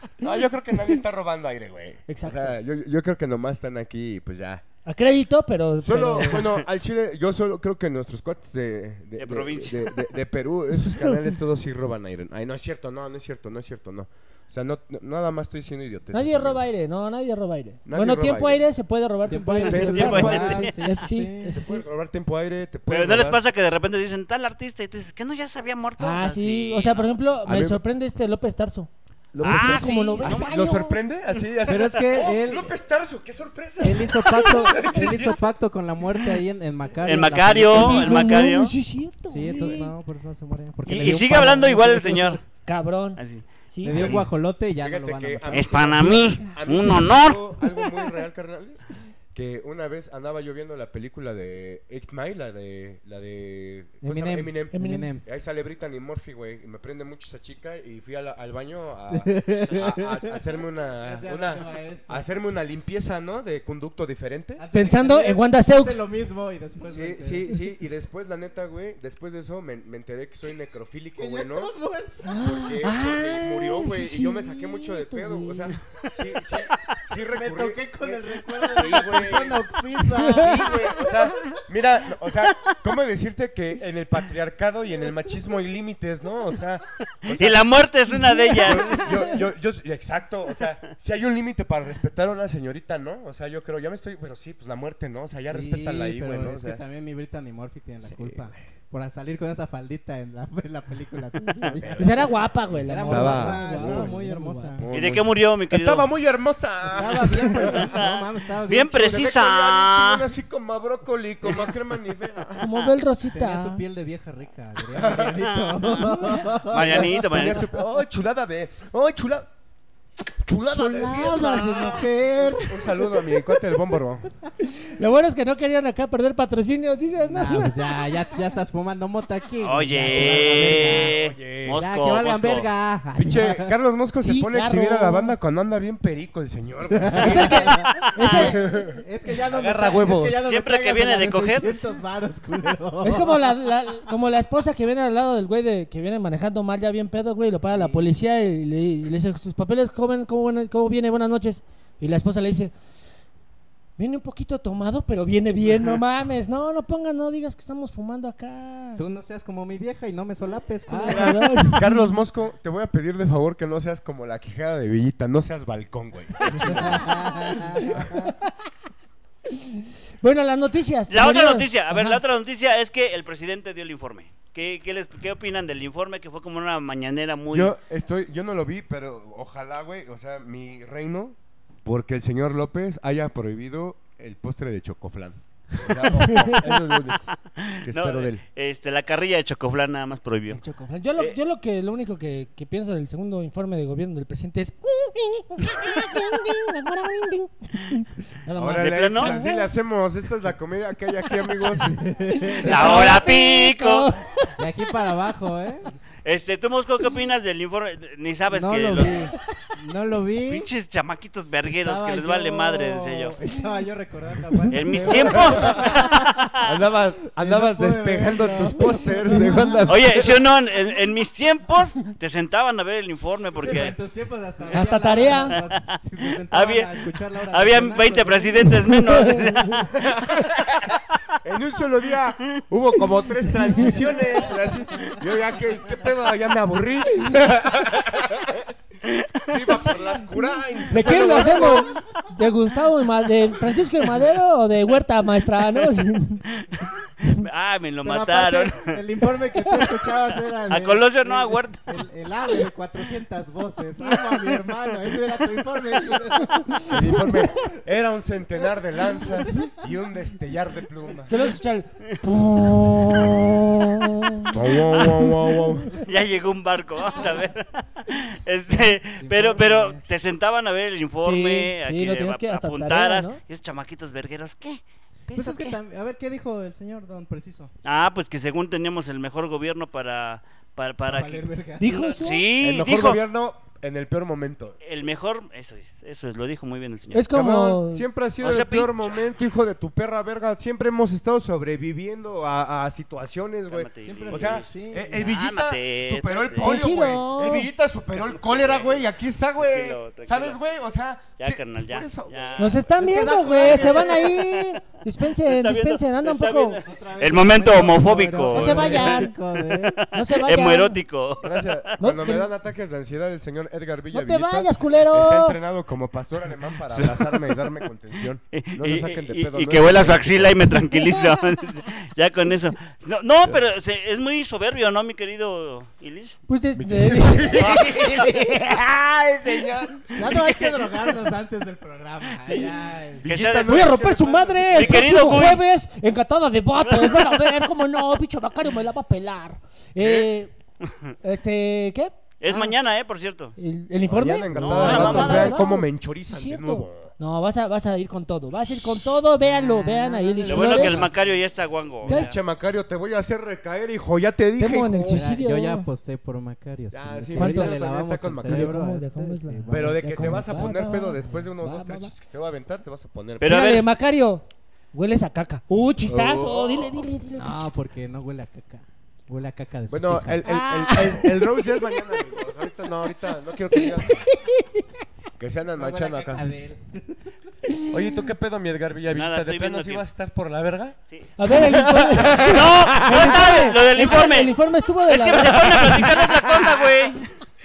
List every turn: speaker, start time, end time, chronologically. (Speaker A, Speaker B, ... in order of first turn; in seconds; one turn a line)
Speaker A: 0.2-4.6
Speaker B: 2.1-2.6
Speaker B: 4.8-6.5
Speaker A: 5.8-16.7
Speaker C: 9.2-10.1
Speaker B: 16.1-21.8
Speaker A: 17.9-18.7
Speaker D: 19.3-21.6
Speaker A: 19.6-20.7
Speaker C: 19.7-20.8
Speaker A: 21.5-23.4
Speaker C: 22.9-27.2
Speaker B: 26.0-28.9
Speaker A: 27.4-27.8
Speaker A: 29.3-35.4
Speaker C: 29.4-30.9
Speaker B: 29.4-31.0
Speaker D: 31.6-32.8
Speaker D: 33.8-38.2
Speaker C: 37.0-38.7
Speaker B: 37.7-39.9
Speaker D: 39.3-42.4
Speaker C: 40.9-42.4
Speaker B: 42.7-44.1
Speaker C: 43.2-44.3
Speaker D: 43.8-46.3
Speaker A: 44.0-44.2
Speaker A: 44.8-64.6
Speaker C: 45.5-47.4
Speaker B: 46.2-46.5
Speaker B: 47.8-48.1
Speaker D: 54.0-55.2
Speaker B: 54.7-55.1
Speaker D: 59.1-60.4
Speaker C: 59.6-59.9
Speaker D: 61.0-62.2
Speaker D: 64.6-67.5
Speaker B: 64.7-66.0
Speaker A: 66.8-71.7
Speaker D: 71.2-72.3
Speaker B: 72.2-75.8
Speaker A: 72.4-79.6
Speaker D: 77.3-81.2
Speaker C: 78.8-79.4
Speaker B: 80.2-80.5
Speaker A: 80.3-87.7
Speaker C: 87.3-89.2
Speaker A: 88.6-96.8
Speaker D: 95.5-104.9
Speaker A: 98.0-98.6
Speaker A: 101.6-102.3
Speaker B: 102.0-104.8
Speaker A: 102.9-104.1
Speaker A: 104.8-108.0
Speaker C: 104.9-106.1
Speaker D: 106.8-109.2
Speaker C: 107.0-110.3
Speaker A: 108.9-112.7
Speaker B: 112.6-113.8
Speaker D: 113.3-117.6
Speaker A: 114.9-115.4
Speaker C: 115.2-117.7
Speaker A: 116.7-119.5
Speaker A: 120.4-122.0
Speaker D: 120.7-123.3
Speaker A: 122.6-124.3
Speaker B: 124.9-127.8
Speaker D: 127.2-131.1
Speaker C: 129.6-132.7
Speaker A: 130.1-131.8
Speaker D: 131.7-133.7
Speaker A: 133.2-140.4
Speaker B: 134.2-135.4
Speaker D: 136.9-143.5
Speaker B: 137.2-138.6
Speaker C: 137.7-138.1
Speaker C: 140.4-141.8
Speaker B: 143.0-152.7
Speaker D: 147.7-148.1
Speaker B: 154.0-159.0
Speaker D: 159.0-161.8
Speaker B: 160.9-162.0
Speaker A: 161.1-167.1
Speaker B: 166.5-168.5
Speaker D: 166.6-168.3
Speaker B: 169.5-172.2
Speaker C: 171.1-177.7
Speaker A: 177.5-187.2
Speaker C: 185.8-186.5
Speaker C: 187.6-190.6
Speaker A: 187.8-188.4
Speaker B: 190.5-199.7
Speaker A: 198.6-202.2
Speaker C: 198.8-199.4
Speaker D: 202.0-203.2
Speaker B: 202.3-204.5
Speaker C: 202.6-204.1
Speaker D: 204.6-205.9
Speaker C: 206.2-209.2
Speaker D: 208.5-210.7
Speaker C: 210.4-213.4
Speaker D: 211.7-216.5
Speaker C: 214.7-216.7
Speaker B: 214.9-215.2
Speaker A: 215.2-215.9
Speaker A: 216.6-220.4
Speaker D: 217.4-219.9
Speaker C: 219.9-224.0
Speaker D: 223.6-229.3
Speaker B: 224.7-225.6
Speaker C: 225.5-230.0
Speaker B: 228.9-229.8
Speaker A: 229.9-238.7
Speaker D: 233.7-234.6
Speaker C: 239.1-239.9
Speaker A: 239.5-242.0
Speaker B: 240.9-246.4
Speaker C: 246.6-249.0
Speaker D: 248.0-257.3
Speaker C: 249.8-250.1
Speaker C: 250.7-252.0
Speaker A: 256.9-261.3
Speaker B: 261.2-265.6
Speaker A: 264.5-266.0
Speaker C: 266.0-275.8
Speaker D: 268.8-270.1
Speaker B: 271.2-273.4
Speaker D: 275.3-277.7
Speaker C: 277.9-283.2
Speaker D: 281.1-281.9
Speaker B: 281.8-282.5
Speaker A: 282.6-284.8
Speaker C: 284.8-287.3
Speaker B: 287.1-288.1
Speaker A: 287.3-302.8
Speaker C: 288.4-289.3
Speaker C: 293.7-296.9
Speaker D: 294.1-295.3
Speaker B: 296.6-297.7
Speaker C: 298.2-300.6
Speaker C: 301.4-302.9
Speaker B: 302.6-306.8
Speaker D: 302.9-304.4
Speaker C: 303.7-304.3
Speaker C: 305.4-311.9
Speaker D: 306.9-310.0
Speaker B: 308.5-309.3
Speaker B: 310.1-311.0
Speaker A: 311.4-320.6
Speaker B: 312.0-312.5
Speaker B: 314.1-315.6
Speaker C: 316.9-317.7
Speaker C: 318.5-326.4
Speaker B: 326.5-328.8
Speaker A: 326.8-330.4
Speaker C: 327.6-328.6
Speaker D: 330.2-333.3
Speaker C: 330.3-330.7
Speaker C: 333.2-333.9
Speaker A: 333.2-335.5
Speaker B: 333.6-340.5
Speaker C: 334.7-335.6
Speaker C: 336.8-337.5
Speaker C: 340.0-340.3
Speaker C: 340.8-341.1
Speaker B: 341.2-342.7
Speaker C: 342.4-343.6
Speaker B: 343.6-351.1
Speaker A: 344.1-347.1
Speaker C: 344.6-345.7
Speaker D: 344.8-345.8
Speaker D: 349.4-351.4
Speaker C: 350.5-352.4
Speaker A: 352.0-355.3
Speaker B: 352.1-352.3
Speaker B: 354.6-355.9
Speaker D: 355.1-360.8
Speaker A: 356.9-358.8
Speaker B: 357.4-357.8
Speaker B: 358.4-362.1
Speaker A: 359.7-363.7
Speaker C: 363.4-363.9
Speaker B: 363.4-367.8
Speaker A: 366.1-367.1
Speaker D: 367.4-370.6
Speaker A: 369.9-374.3
Speaker B: 370.4-371.8
Speaker B: 373.8-374.9
Speaker A: 375.4-376.5
Speaker D: 375.8-377.2
Speaker A: 377.9-383.4
Speaker C: 379.1-380.1
Speaker B: 381.4-386.2
Speaker C: 382.3-384.6
Speaker C: 385.1-387.2
Speaker A: 385.9-386.3